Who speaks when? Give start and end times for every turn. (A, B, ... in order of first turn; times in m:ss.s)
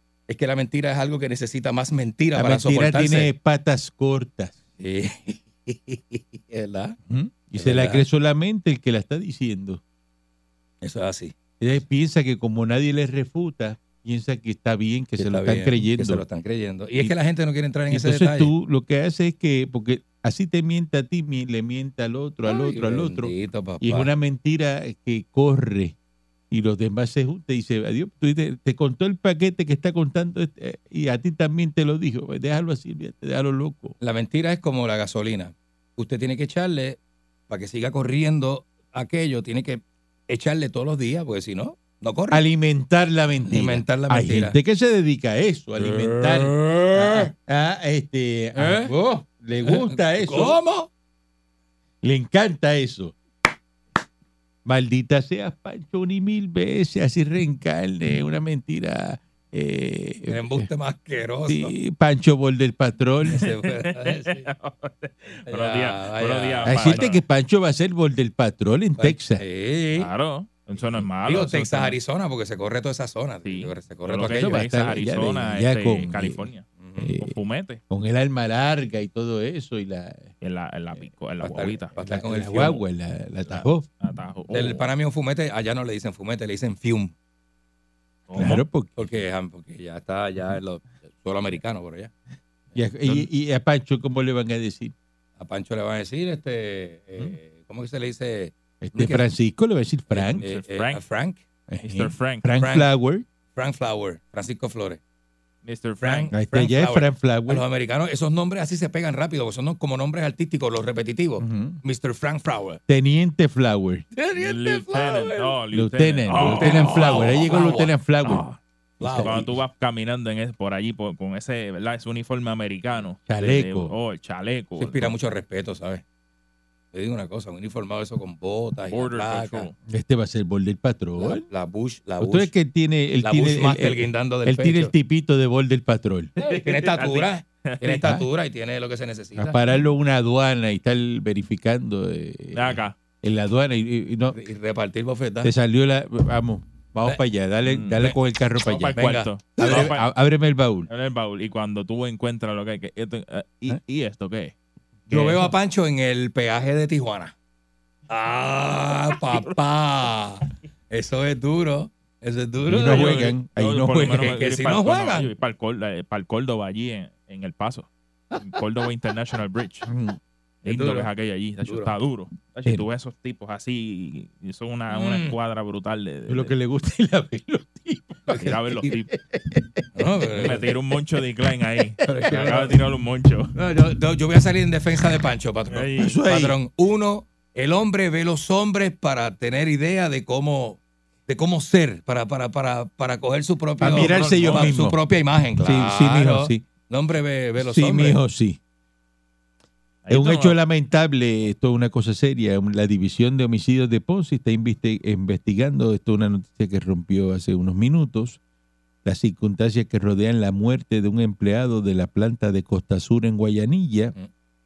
0:00.3-0:03.3 A
0:02.3-0:04.5 B
0:04.8-0:07.0 A
0:07.1-0:09.8 B
0:07.6-0:08.0 A
0:10.8-0:11.3 A
0:11.6-0:16.2 B
0:15.2-0:18.5 A
0:17.9-0:25.9 B
0:22.4-0:24.1 A
0:26.5-0:34.0 B
0:34.0-0:37.0 A
0:37.5-0:42.4 A
0:42.3-0:50.6 B
0:43.5-0:44.6 A
0:45.8-0:47.3 A
0:48.5-0:49.0 A
0:49.6-0:50.9 A
0:52.0-0:53.1 B
0:54.6-1:00.6 B
1:00.3-1:01.7 A
1:01.5-1:03.5 B
1:03.3-1:04.5 A
1:03.4-1:07.2 C
1:05.5-1:07.1 A
1:06.6-1:09.4 B
1:09.0-1:10.1 A
1:10.0-1:12.0 C
1:10.8-1:14.6 A
1:13.4-1:17.8 C
1:14.2-1:16.5 B
1:16.8-1:17.1 A
1:17.0-1:17.4 B
1:17.9-1:20.3 B
1:20.4-1:21.9 C
1:21.4-1:22.8 A
1:22.0-1:23.9 B
1:23.5-1:24.9 C
1:24.5-1:27.1 A
1:28.3-1:28.6 C
1:28.4-1:28.9 B
1:29.0-1:32.1 A
1:32.8-1:34.9 B
1:35.4-1:39.2 A
1:38.8-1:40.4 B
1:40.1-1:41.4 A
1:40.4-1:41.0 C
1:41.7-1:43.2 B
1:41.8-1:42.4 C
1:42.6-1:42.9 A
1:43.5-1:45.0 A
1:45.6-1:46.3 C
1:46.0-1:52.8 A
1:46.3-1:47.6 B
1:51.4-1:51.8 B
1:52.9-1:54.0 B
1:54.1-1:55.6 A
1:54.3-1:57.5 C
1:55.7-1:58.4 B
1:56.3-1:59.5 A
1:59.0-1:59.5 B
1:59.0-2:05.1 C
2:03.3-2:03.9 B
2:04.8-2:06.0 A
2:06.9-2:09.7 A
2:08.9-2:09.7 C
2:09.9-2:11.4 B
2:11.2-2:12.5 A
2:12.2-2:16.3 B
2:13.2-2:14.9 A
2:16.4-2:19.6 A
2:16.4-2:17.9 C
2:17.9-2:18.2 B
2:19.4-2:24.4 B
2:22.5-2:22.9 C
2:24.3-2:25.5 A
2:25.4-2:30.9 B
2:27.6-2:28.1 C
2:28.6-2:30.1 C
2:28.9-2:29.9 A
2:30.9-2:34.5 C
2:35.1-2:37.3 A
2:35.1-2:35.5 C
2:38.1-2:43.2 A
2:39.2-2:39.5 C
2:42.7-2:44.4 B
2:42.8-2:47.9 C
2:44.2-2:45.3 A
2:48.4-2:49.9 C
2:49.8-2:50.2 B
2:50.6-2:56.5 C
2:50.6-2:51.1 A
2:51.6-2:51.9 A
2:54.9-2:55.4 A
2:56.3-2:59.8 B
2:58.3-2:58.9 A
2:58.4-2:59.1 C
2:59.9-3:00.6 A
3:00.4-3:03.5 C
3:02.0-3:02.7 A
3:02.2-3:02.6 B
3:03.6-3:18.2 A
3:05.7-3:06.2 C
3:06.0-3:06.6 B
3:13.8-3:15.0 B
3:13.8-3:14.7 C
3:15.6-3:16.6 B
3:17.6-3:18.6 B
3:20.0-3:20.6 C
3:20.1-3:28.4 B
3:29.0-3:34.1 B